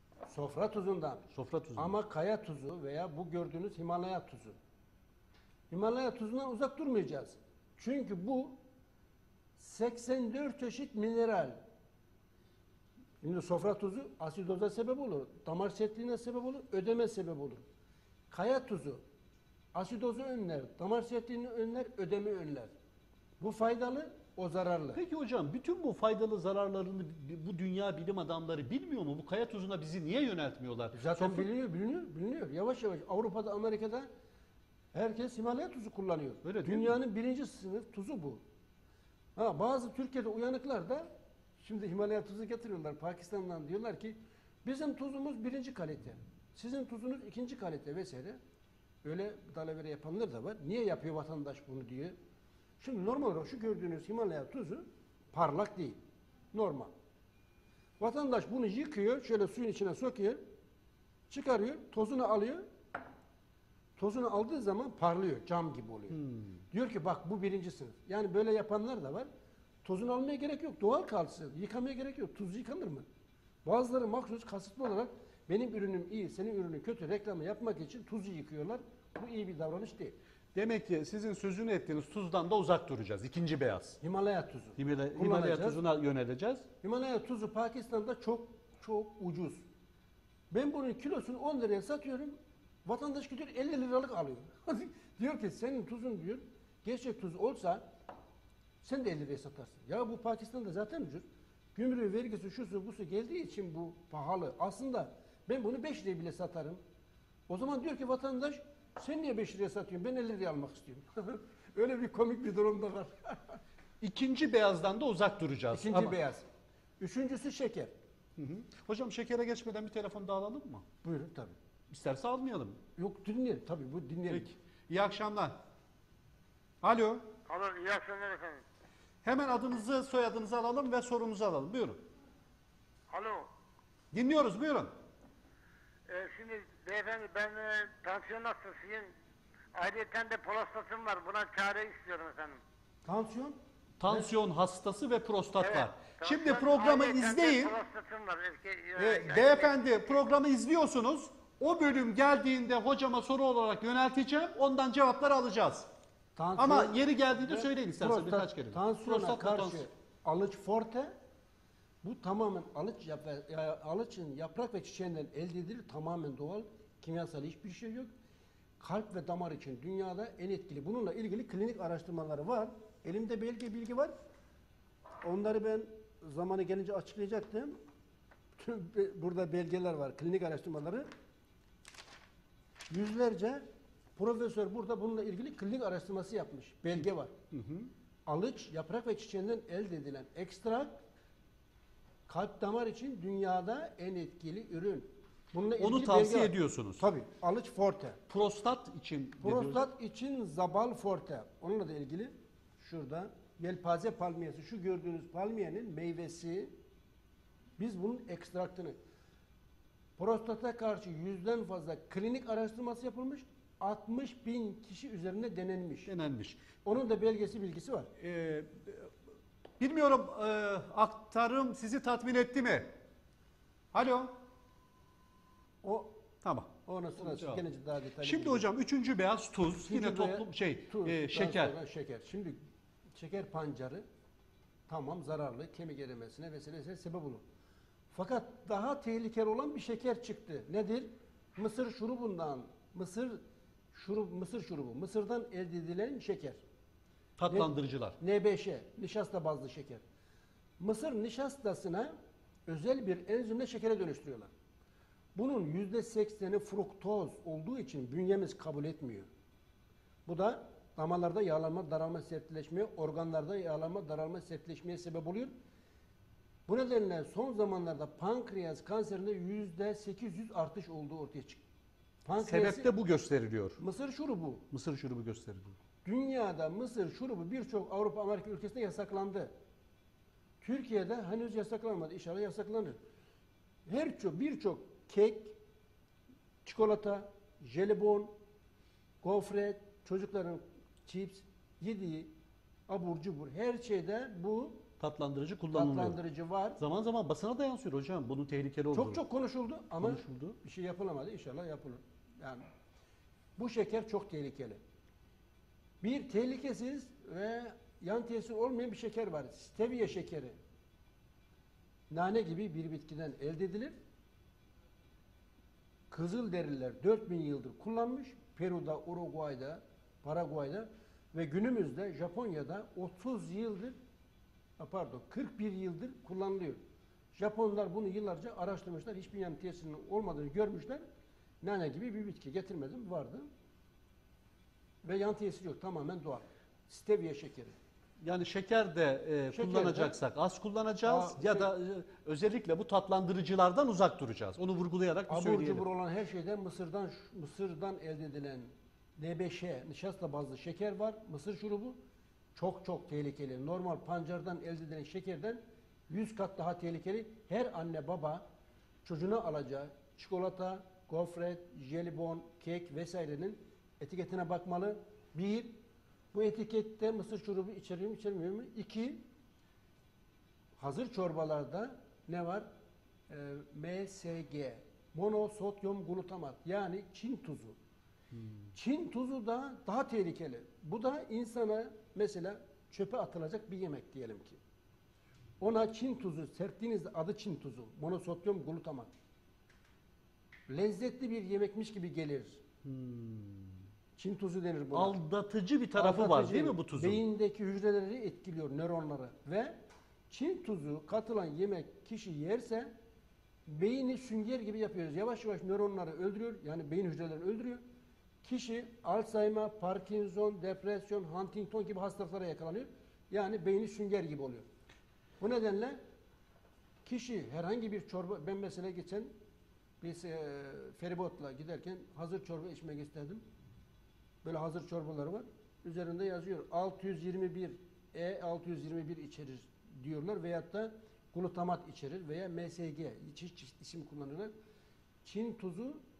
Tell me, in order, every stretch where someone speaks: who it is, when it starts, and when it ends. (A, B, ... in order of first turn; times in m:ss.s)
0:00.3-0:04.6 A
0:01.3-0:01.9 B
0:05.7-0:08.6 A
0:09.6-0:11.6 A
0:13.2-0:17.6 A
0:18.3-0:19.0 A
0:19.7-0:22.7 A
0:23.4-0:25.0 A
0:24.9-0:31.5 B
0:30.9-0:34.1 A
0:34.9-0:38.4 A
0:36.4-0:36.9 B
0:39.4-0:41.1 A
0:41.6-0:48.4 A
0:49.0-0:52.1 A
0:52.8-0:56.0 A
0:56.5-0:56.9 A
0:58.0-1:00.4 A
1:01.3-1:02.6 A
1:04.0-1:09.3 A
1:09.8-1:13.0 A
1:13.6-1:20.2 A
1:20.5-1:24.0 B
1:24.0-1:25.8 A
1:24.8-1:26.7 B
1:26.8-1:29.6 A
1:30.5-1:37.8 A
1:38.8-1:46.8 A
1:47.5-1:53.6 A
1:54.0-1:56.2 B
1:55.7-1:56.4 A
1:57.0-1:57.9 A
1:58.4-2:00.8 B
2:01.0-2:01.5 A
2:01.9-2:02.8 B
2:03.0-2:04.5 A
2:04.3-2:05.6 B
2:06.8-2:07.3 B
2:07.5-2:08.6 C
2:09.2-2:12.0 B
2:13.1-2:13.5 C
2:14.1-2:14.9 B
2:16.1-2:19.1 C
2:19.7-2:22.6 C
2:23.0-2:24.3 A
2:24.0-2:27.7 B
2:25.6-2:29.7 C
2:29.0-2:35.9 B
2:36.4-2:41.1 A
2:36.6-2:39.8 B
2:42.0-2:48.1 A
2:48.8-2:54.1 A
2:55.2-2:57.7 A
2:58.6-3:01.1 A
3:02.9-3:03.6 A
3:04.2-3:07.3 A
3:07.5-3:07.9 B
3:08.3-3:10.9 A
3:12.3-3:18.2 A
3:15.8-3:17.0 B
3:18.3-3:19.8 B
3:19.4-3:26.7 A
3:27.8-3:29.0 A
3:30.2-3:36.1 A
3:36.0-3:36.6 B
3:36.8-3:38.1 A
3:38.2-3:39.1 B
3:39.8-3:42.9 B
3:43.9-3:44.3 B
3:45.8-3:46.2 A
3:46.4-3:47.6 B
3:46.8-3:48.7 A
3:48.2-3:51.8 B
3:49.8-3:52.6 A
3:53.1-3:54.0 A
3:54.9-3:57.4 A
3:58.1-4:03.4 A
4:03.9-4:06.6 A
4:07.4-4:08.2 B
4:07.5-4:10.0 A
4:10.8-4:12.1 A
4:12.7-4:14.5 A
4:15.3-4:19.3 A
4:20.2-4:25.5 A
4:26.7-4:31.6 A
4:32.2-4:32.9 A
4:32.4-4:33.8 B
4:33.8-4:34.6 A
4:34.7-4:35.8 B
4:36.0-4:39.5 A
4:40.6-4:43.0 A
4:43.8-4:45.6 A
4:46.6-4:48.3 A
4:49.2-4:52.3 A
4:52.9-4:54.8 A
4:55.0-4:56.2 B
4:55.7-4:56.8 A
4:56.8-4:59.2 B
4:58.9-5:02.6 A
5:00.0-5:00.6 B
5:03.6-5:04.8 A
5:06.0-5:10.6 A
5:12.1-5:13.9 A
5:16.1-5:24.0 A
5:24.8-5:26.8 A
5:27.3-5:31.0 A
5:31.6-5:33.5 A
5:35.0-5:37.7 A
5:38.2-5:45.8 B
5:39.5-5:40.1 A
5:41.0-5:41.7 A
5:45.3-5:52.0 A
5:52.5-5:58.4 A
5:59.0-6:05.8 A
6:06.3-6:09.2 A
6:10.8-6:12.7 A
6:13.3-6:17.8 A
6:18.7-6:24.6 A
6:25.6-6:29.1 A
6:30.7-6:32.6 A
6:32.8-6:33.8 B
6:34.2-6:35.2 A
6:34.9-6:37.2 B
6:35.9-6:39.7 A
6:40.3-6:42.9 A
6:43.7-6:47.8 A
6:48.4-6:54.6 A
6:55.4-6:56.0 A
6:57.0-6:59.3 A
7:00.0-7:03.4 A
7:04.4-7:14.5 A
7:15.2-7:16.0 A